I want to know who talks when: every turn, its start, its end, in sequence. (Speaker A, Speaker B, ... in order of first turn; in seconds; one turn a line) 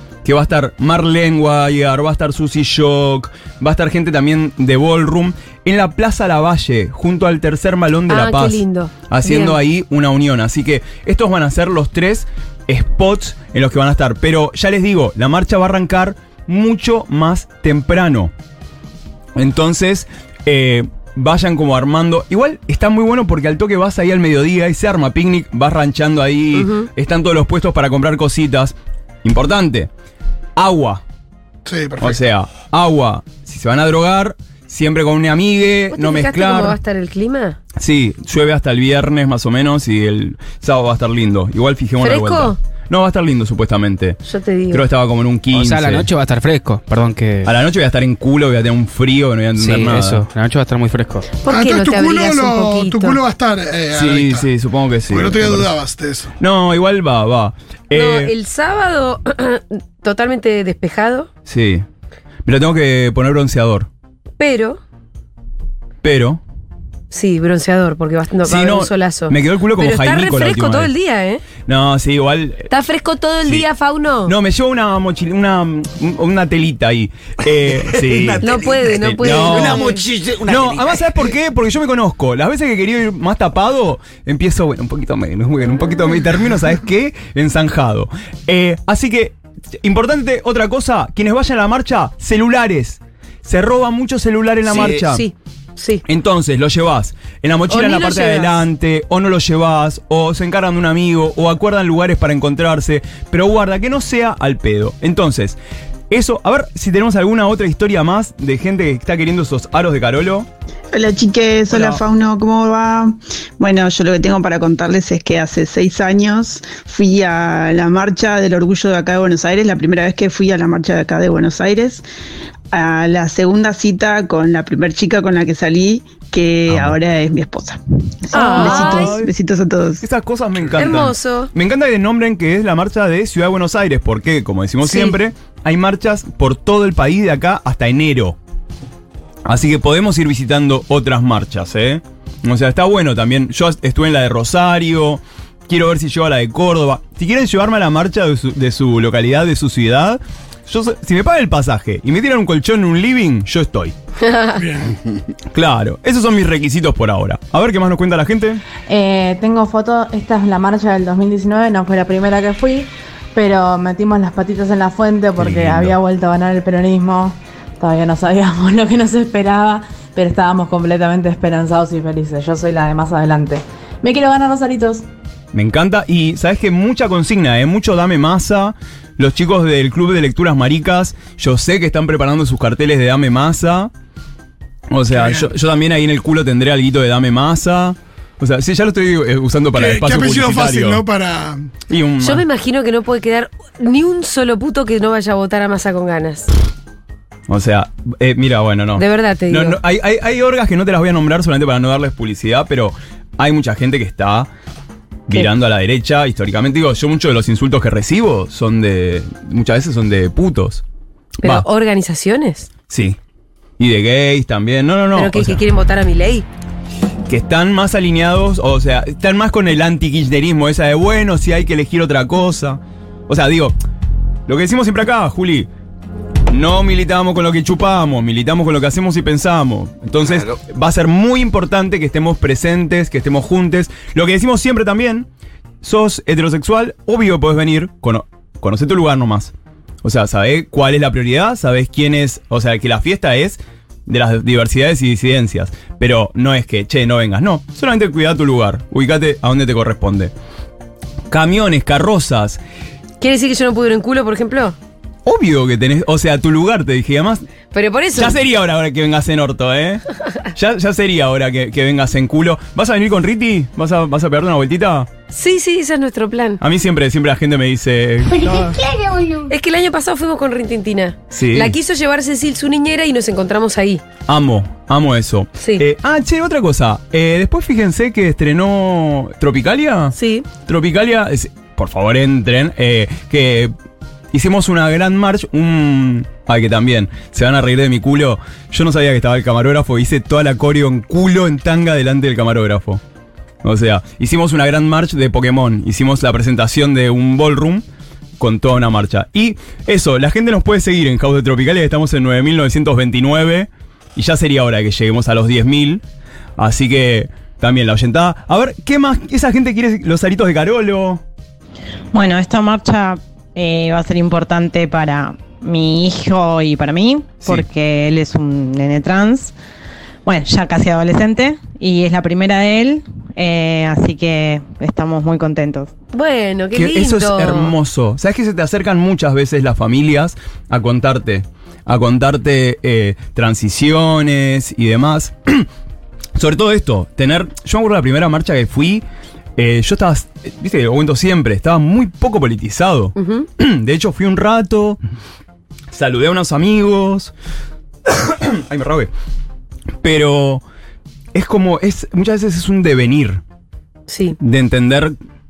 Speaker A: 0.2-18.3
Speaker B: 8.1-9.6
Speaker A: 19.4-29.9
Speaker B: 26.5-26.9
Speaker A: 30.6-31.0
Speaker C: 31.6-32.2
Speaker A: 32.0-36.8
Speaker B: 35.9-37.6
Speaker A: 37.8-44.2
Speaker B: 42.0-42.6
Speaker B: 44.2-44.8
Speaker A: 44.7-46.1
Speaker D: 45.5-47.5
Speaker A: 47.4-50.2
Speaker D: 49.6-51.2
Speaker B: 51.4-53.2
Speaker C: 51.5-54.5
Speaker A: 53.9-55.7
Speaker C: 55.1-56.3
Speaker A: 56.4-58.3
Speaker B: 57.9-61.3
Speaker A: 61.5-61.9
Speaker A: 62.4-63.9
Speaker B: 64.4-64.8
Speaker A: 66.0-66.4
Speaker B: 67.1-71.4
Speaker A: 68.4-70.9
Speaker A: 71.6-72.7
Speaker B: 72.7-74.3
Speaker A: 74.2-79.9
Speaker E: 77.9-81.3
Speaker B: 78.4-80.0
Speaker A: 80.5-95.2
Speaker E: 94.6-95.0
Speaker B: 94.8-96.0
Speaker A: 96.0-105.6
Speaker B: 97.7-98.6
Speaker A: 106.1-110.5
Speaker F: 110.9-122.0
Speaker A: 111.7-112.0
Speaker F: 122.7-130.0
Speaker A: 126.7-127.0
Speaker B: 128.3-129.2
Speaker A: 128.4-129.3
Speaker A: 130.0-138.4
Speaker B: 130.8-131.5
Speaker B: 134.8-135.2
Speaker A: 139.4-153.9
Speaker B: 154.2-154.6
Speaker C: 154.6-154.9
Speaker A: 155.5-158.6
Speaker G: 158.9-175.0
Speaker A: 165.4-166.0
Speaker A: 175.5-183.9
Speaker A: 184.9-191.0
Speaker C: 185.1-185.5
Speaker C: 189.7-191.7
Speaker A: 191.9-192.4
Speaker B: 192.2-196.5
Speaker A: 197.5-204.5
Speaker B: 198.9-199.8
Speaker A: 205.3-210.8
Speaker B: 211.4-212.7
Speaker A: 212.9-213.2
Speaker A: 213.8-215.6
Speaker B: 215.1-216.4
Speaker A: 217.3-223.7
Speaker A: 224.5-225.7
Speaker A: 226.5-235.3
Speaker E: 230.2-230.5
Speaker A: 235.8-239.5
Speaker A: 240.0-250.3
Speaker A: 251.3-252.6
Speaker B: 253.2-254.8
Speaker A: 255.2-257.4
Speaker B: 257.7-258.4
Speaker A: 258.1-265.1
Speaker B: 265.3-266.6
Speaker A: 266.6-268.8
Speaker G: 268.4-269.4
Speaker B: 269.5-274.0
Speaker A: 271.3-271.8
Speaker A: 274.3-283.7
Speaker B: 280.1-280.5
Speaker A: 284.3-293.0
Speaker A: 293.6-297.8
Speaker A: 298.4-306.0
Speaker A: 306.6-311.2
Speaker G: 312.1-319.5
Speaker A: 317.4-317.6
Speaker G: 320.2-325.9
Speaker B: 326.1-327.7
Speaker A: 326.7-335.7
Speaker A: 336.4-339.0
Speaker A: 339.6-345.0
Speaker B: 343.1-343.5
Speaker A: 345.9-347.3
Speaker A: 348.1-349.1
Speaker A: 350.0-350.6
Speaker A: 351.3-353.4
Speaker B: 354.1-354.4
Speaker A: 354.4-355.1